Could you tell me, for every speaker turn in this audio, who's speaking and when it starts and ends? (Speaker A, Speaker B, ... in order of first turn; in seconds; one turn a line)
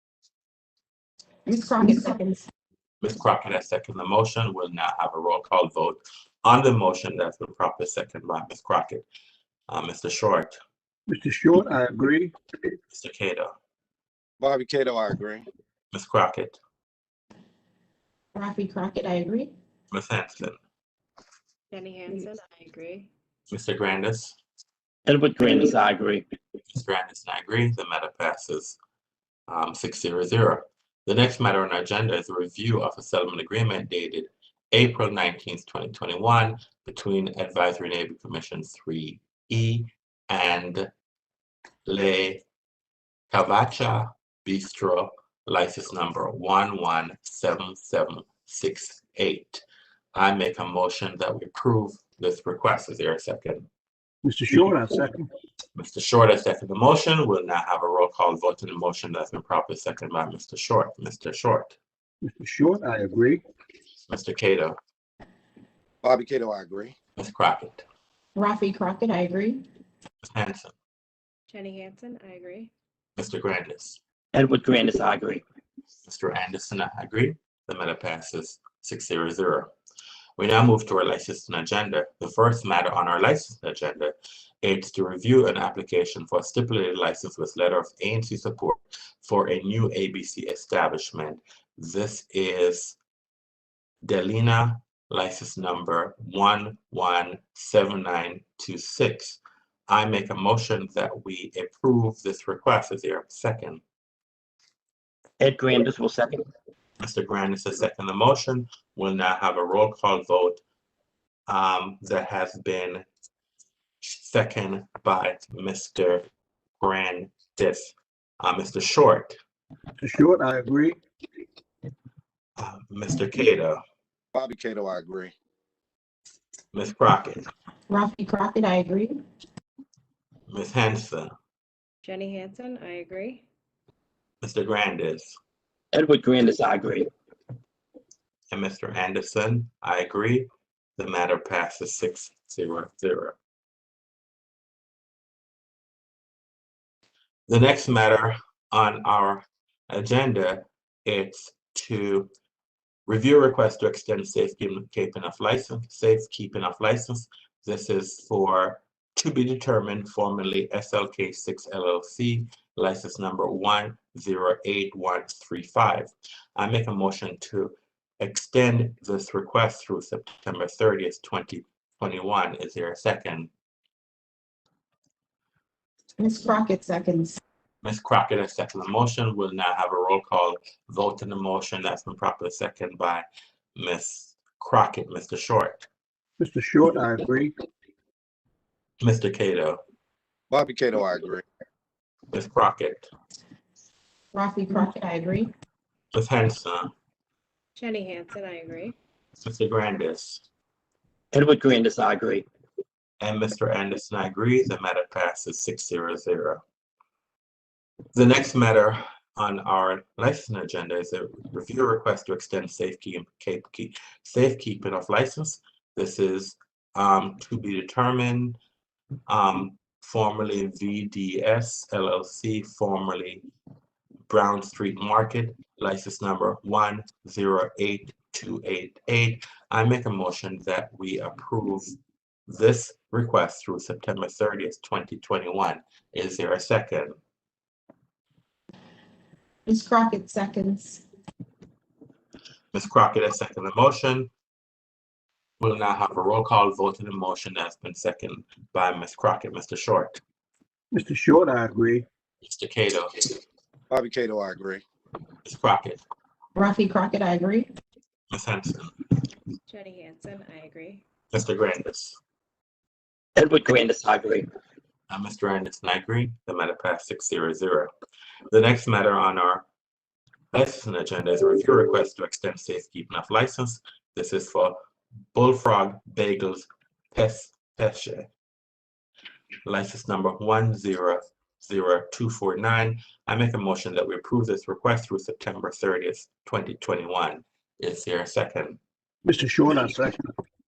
Speaker A: 1.5-2.5
Speaker B: 3.0-9.1
Speaker B: 9.7-10.6
Speaker C: 11.1-12.3
Speaker B: 12.9-13.5
Speaker D: 14.4-15.5
Speaker B: 15.9-16.6
Speaker A: 18.4-19.5
Speaker B: 19.9-20.6
Speaker E: 21.7-23.1
Speaker B: 23.5-24.4
Speaker F: 25.1-26.3
Speaker B: 26.7-28.8
Speaker B: 29.5-40.9
Speaker B: 41.9-42.4
Speaker B: 43.3-49.6
Speaker B: 50.1-53.7
Speaker C: 54.2-55.3
Speaker B: 55.8-61.8
Speaker C: 62.2-63.4
Speaker B: 64.1-64.8
Speaker D: 66.0-67.0
Speaker B: 67.2-67.8
Speaker A: 68.3-69.6
Speaker B: 70.2-70.7
Speaker E: 71.5-72.7
Speaker B: 73.2-74.0
Speaker F: 74.3-75.4
Speaker B: 76.0-79.7
Speaker B: 80.4-93.0
Speaker B: 94.0-103.8
Speaker F: 105.4-106.5
Speaker B: 107.0-110.6
Speaker B: 111.5-113.1
Speaker B: 114.0-116.2
Speaker B: 116.8-119.4
Speaker C: 120.0-121.0
Speaker B: 122.6-123.8
Speaker D: 124.3-125.3
Speaker B: 126.7-127.5
Speaker A: 127.9-129.2
Speaker B: 130.5-131.3
Speaker E: 132.1-133.4
Speaker B: 134.4-135.4
Speaker F: 135.9-137.1
Speaker B: 138.5-143.4
Speaker B: 147.5-152.3
Speaker B: 153.1-173.5
Speaker A: 176.2-177.4
Speaker B: 177.8-185.9
Speaker C: 186.4-187.6
Speaker B: 189.0-189.8
Speaker D: 190.5-191.4
Speaker B: 192.3-193.1
Speaker A: 194.3-195.5
Speaker B: 196.1-196.9
Speaker E: 197.8-198.9
Speaker B: 199.4-200.4
Speaker F: 201.3-202.5
Speaker B: 203.2-206.6
Speaker B: 208.1-218.6
Speaker B: 219.3-223.5
Speaker B: 224.3-231.9
Speaker B: 232.5-237.2
Speaker A: 239.7-241.0
Speaker B: 242.7-244.3
Speaker B: 245.6-250.2
Speaker C: 250.9-252.1
Speaker B: 252.4-253.2
Speaker D: 253.9-254.8
Speaker B: 255.4-256.0
Speaker A: 256.6-257.7
Speaker B: 258.3-258.9
Speaker E: 259.7-261.0
Speaker B: 261.3-262.2
Speaker F: 263.4-264.5
Speaker B: 265.1-267.9
Speaker B: 268.5-269.6
Speaker B: 270.5-274.8
Speaker B: 275.3-278.3
Speaker B: 279.6-288.8
Speaker C: 289.2-290.3